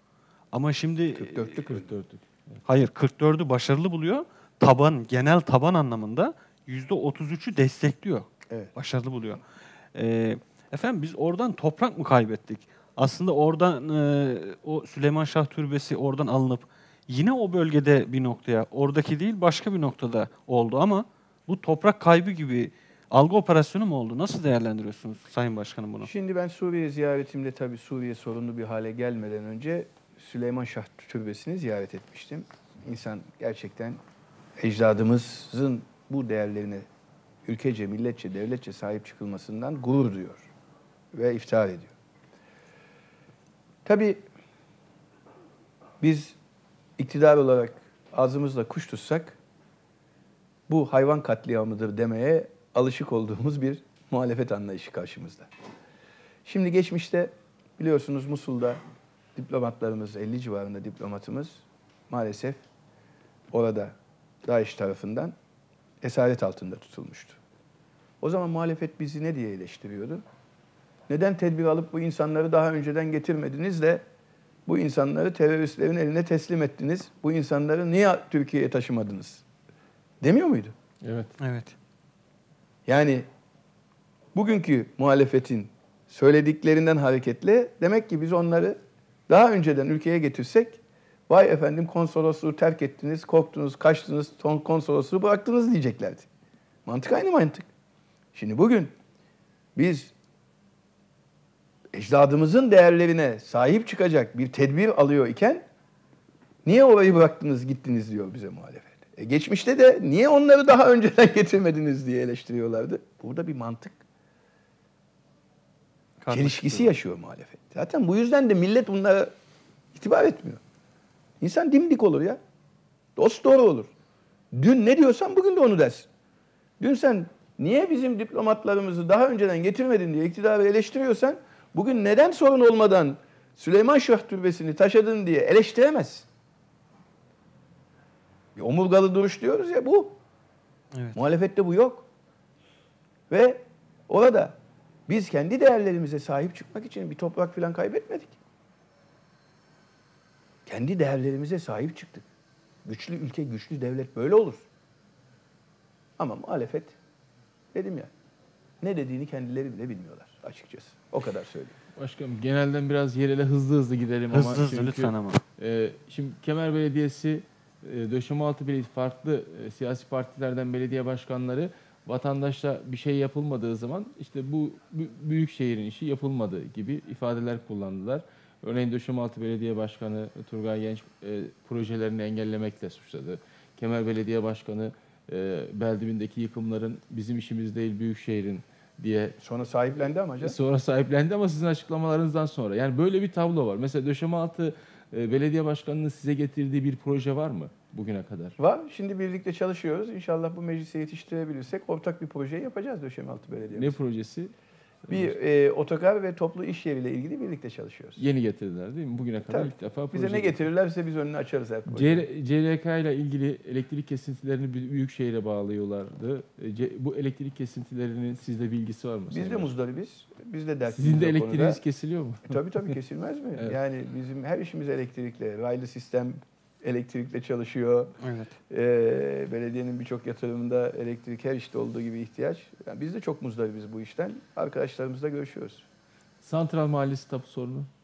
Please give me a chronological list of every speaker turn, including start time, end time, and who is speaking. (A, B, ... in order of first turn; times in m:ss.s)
0:00.5-0:01.6 A
0:01.2-0:02.0 B
0:01.7-0:02.6 C
0:02.6-0:09.4 A
0:09.9-0:26.1 A
0:26.0-0:34.0 B
0:34.6-0:36.8 B
0:37.4-0:40.5 B
0:41.1-0:41.9 B
0:43.8-0:44.2 B
0:46.0-0:46.4 B
0:47.0-0:49.4 B
0:50.7-0:55.5 B
0:56.4-0:58.8 B
0:59.3-1:02.6 B
1:03.5-1:05.3 B
1:06.0-1:07.4 B
1:08.2-1:10.2 B
1:11.1-1:14.0 B
1:14.6-1:19.4 B
1:20.2-1:20.8 B
1:21.0-1:21.3 C
1:21.4-1:21.7 A
1:22.8-1:23.3 B
1:24.3-1:36.3 B
1:36.8-1:37.7 B
1:38.3-1:38.9 B
1:39.8-1:40.1 B
1:41.9-1:45.6 B
1:46.6-1:54.0 B
1:56.2-1:56.9 A
1:56.3-1:59.3 B
1:59.9-2:00.6 B
2:01.4-2:02.4 B
2:03.2-2:03.9 B
2:04.5-2:06.1 B
2:06.8-2:16.3 B
2:18.6-2:20.2 B
2:21.1-2:22.1 B
2:23.3-2:28.4 B
2:30.6-2:32.3 B
2:32.8-2:34.6 B
2:36.2-2:37.0 B
2:37.7-2:38.1 B
2:38.8-2:41.8 B
2:42.0-3:09.4 C
2:44.3-2:45.4 A
3:09.4-3:10.6 B
3:10.4-3:18.6 C
3:18.6-3:24.0 B
3:23.7-3:24.5 C
3:25.1-3:25.4 C
3:25.1-3:28.2 B
3:28.2-3:30.6 C
3:29.5-3:32.2 B
3:31.9-3:39.7 C
3:39.3-3:41.8 B
3:40.9-3:42.6 C
3:42.4-3:48.2 B
3:48.2-3:48.5 A
3:48.7-3:55.8 B
3:56.4-3:57.9 C